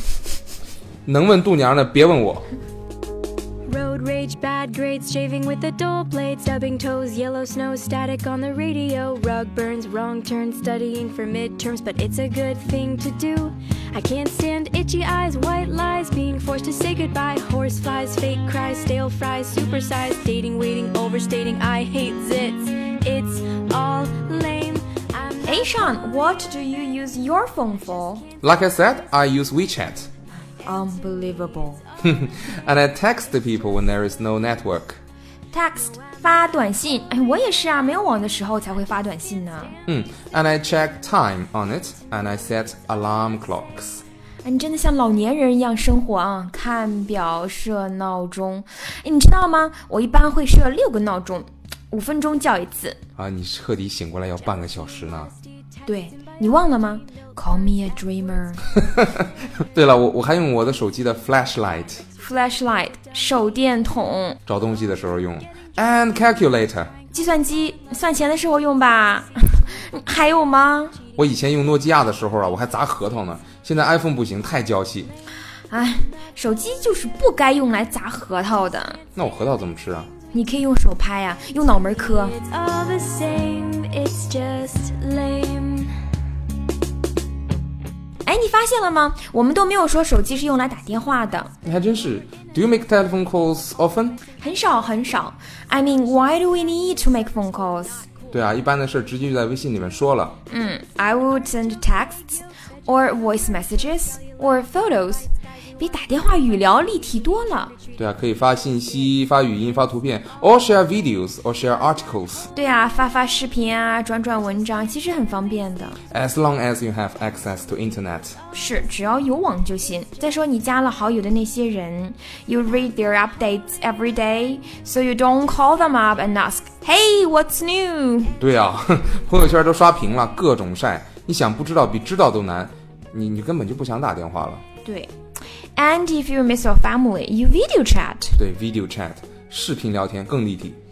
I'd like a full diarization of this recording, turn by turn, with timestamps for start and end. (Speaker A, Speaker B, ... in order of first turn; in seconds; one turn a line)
Speaker A: 1.1-2.5
Speaker B: 3.6-25.9
Speaker C: 25.4-28.3
Speaker A: 28.4-30.1
Speaker C: 30.6-31.8
Speaker A: 32.0-35.0
Speaker C: 35.5-39.8
Speaker A: 39.9-44.0
Speaker C: 44.4-53.0
Speaker A: 53.2-55.3
Speaker C: 55.9-58.7
Speaker A: 59.7-62.0
Speaker C: 62.2-64.4
Speaker A: 64.5-66.9
Speaker C: 67.1-71.0
Speaker A: 71.2-75.1
Speaker C: 75.7-79.0
Speaker A: 79.1-80.1
Speaker C: 80.3-82.4
Speaker B: 82.2-86.0
Speaker C: 88.2-91.5
Speaker A: 91.6-94.2
Speaker C: 94.4-98.1
Speaker A: 98.3-100.4
Speaker C: 100.5-105.3
Speaker C: 105.8-107.8
Speaker A: 108.0-112.5
Speaker C: 112.5-116.0
Speaker A: 116.1-118.4
Speaker C: 118.5-128.4
Speaker A: 128.4-134.6
Speaker C: 134.8-135.1
Speaker C: 135.8-138.4
Speaker A: 138.4-140.8